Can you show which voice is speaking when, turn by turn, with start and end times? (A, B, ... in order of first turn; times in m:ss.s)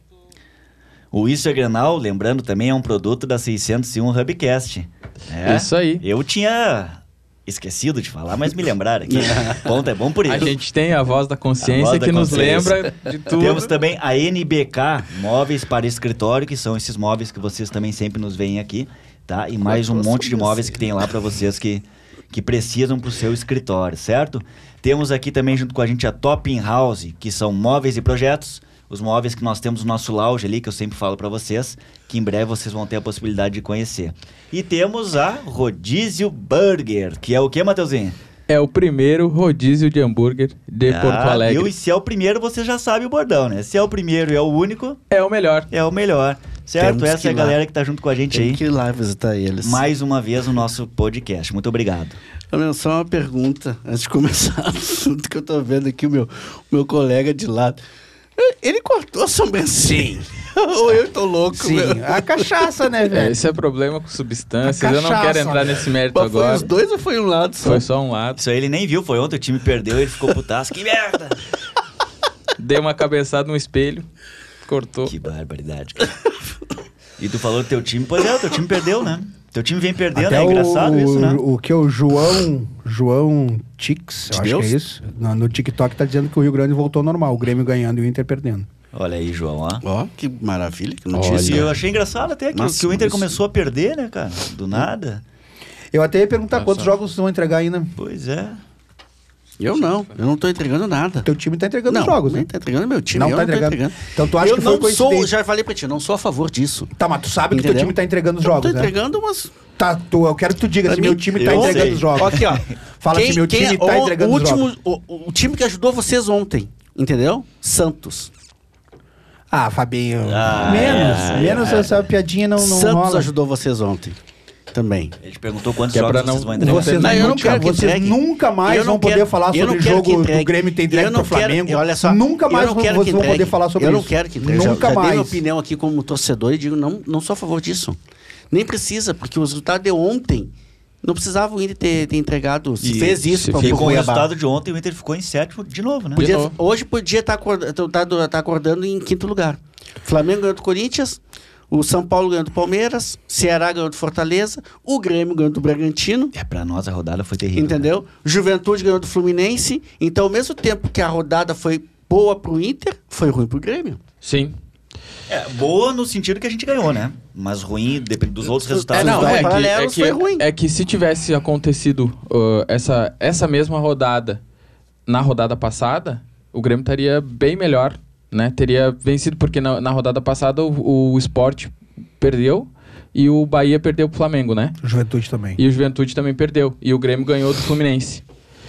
0:01.1-0:10.6 A
0:05.4-0:06.0 B
0:09.1-0:09.7 C
0:10.3-0:13.7 B
0:11.6-0:38.2 A
0:19.7-0:20.8 C
0:38.5-0:41.7 B
0:40.9-0:45.0 A
0:45.1-0:45.7 B
0:45.7-0:48.6 A
0:46.8-0:47.6 C
0:48.3-0:49.9 C
0:49.6-0:52.2 A
0:52.5-0:57.8 C
0:58.4-1:02.5 C
0:59.8-1:00.3 D
1:01.5-1:03.4 D
1:03.1-1:06.7 B
1:04.6-1:05.8 D
1:06.1-1:07.9 C
1:07.6-1:08.4 B
1:08.4-1:11.4 A
1:12.6-1:14.1 B
1:14.6-1:15.1 B
1:15.1-1:16.2 A
1:17.2-1:21.4 A
1:20.2-1:28.7 D
1:24.3-1:24.8 C
1:28.9-1:29.8 A
1:29.8-1:31.8 C
1:31.1-1:31.7 B
1:31.4-1:35.2 A
1:32.5-1:33.4 C
1:35.9-1:37.9 D
1:36.6-1:36.9 B
1:38.0-1:38.6 A
1:39.6-1:41.3 C
1:39.7-1:40.1 B
1:41.2-1:42.5 D
1:41.9-1:46.9 C
1:43.1-1:45.3 D
1:47.0-1:48.9 D
1:47.5-1:49.5 C
1:49.8-1:54.7 D
1:50.8-1:58.3 C
1:51.3-1:52.5 A
1:59.5-2:03.3 D
2:00.2-2:02.0 A
2:01.1-2:01.4 C
2:02.6-2:04.2 C
2:04.7-2:05.2 C
2:05.2-2:07.4 A
2:05.9-2:07.3 B
2:06.6-2:15.4 D
2:07.0-2:18.0 C
2:18.5-2:24.3 C
2:22.8-2:26.3 A
2:23.3-2:23.9 B
2:26.2-2:26.5 B
2:26.2-2:36.3 C
2:36.3-2:37.8 A
2:37.6-2:44.0 C
2:44.2-2:44.6 B
2:45.3-2:49.6 A
2:48.6-2:50.5 C
2:49.0-2:54.4 B
2:55.1-3:04.8 B
3:04.8-3:05.6 D
3:05.6-3:08.2 B